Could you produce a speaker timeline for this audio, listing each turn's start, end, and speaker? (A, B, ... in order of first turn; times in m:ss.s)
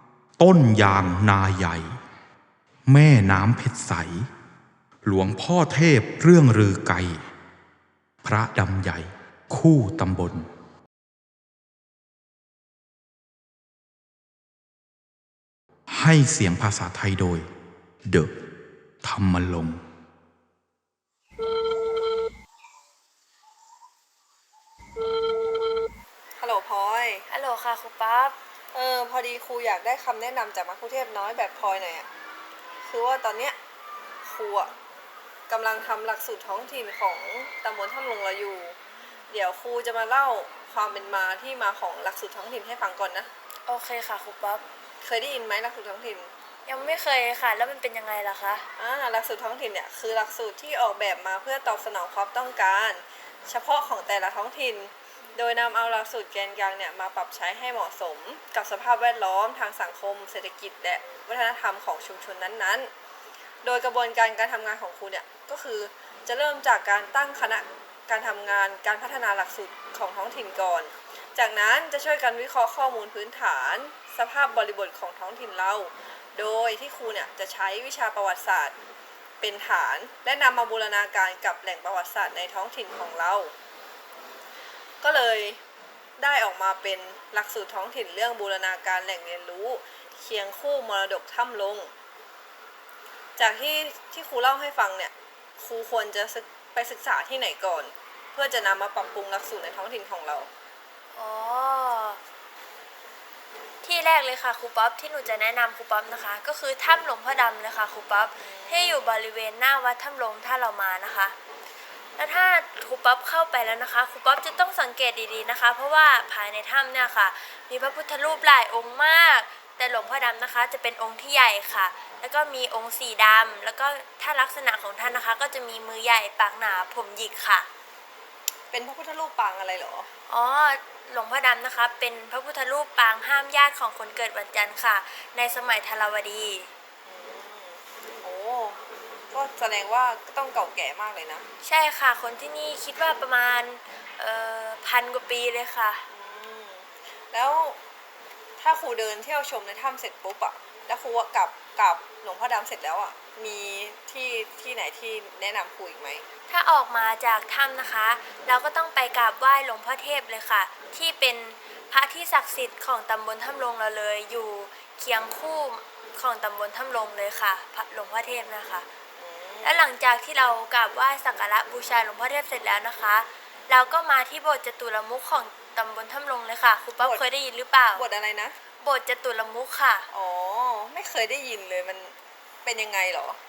0:00.4-0:01.9 A
0:02.9-0:04.2 A
0:05.0-0:07.2 A
0:08.2-0:10.4 A
0:15.9-0:17.4 A
0:19.0-0:19.8 A
0:26.4-0:27.2 B
0:27.3-0:28.4 C
0:28.7-0:32.1 B
0:32.8-0:33.6 B
0:34.2-0:34.7 B
0:35.5-0:38.8 B
0:39.3-0:43.3 B
0:43.7-0:44.6 C
0:45.0-0:46.3 B
0:46.6-0:48.6 C
0:48.8-1:02.9 B
1:03.6-1:18.8 B
1:19.4-1:23.5 B
1:25.0-1:25.6 B
1:26.2-1:31.9 B
1:33.4-1:40.5 B
1:41.1-1:42.2 C
1:43.8-1:51.4 C
1:48.4-1:49.0 B
1:52.2-2:07.7 C
2:08.7-2:10.1 B
2:10.3-2:16.7 C
2:17.0-2:21.4 B
2:21.6-2:26.0 C
2:26.1-2:27.8 B
2:28.6-2:36.2 B
2:36.5-2:48.9 C
2:49.2-2:49.9 B
2:49.6-2:58.0 C
2:57.0-2:57.2 B
2:57.9-2:58.6 B
2:58.8-3:00.1 C
3:00.1-3:03.4 B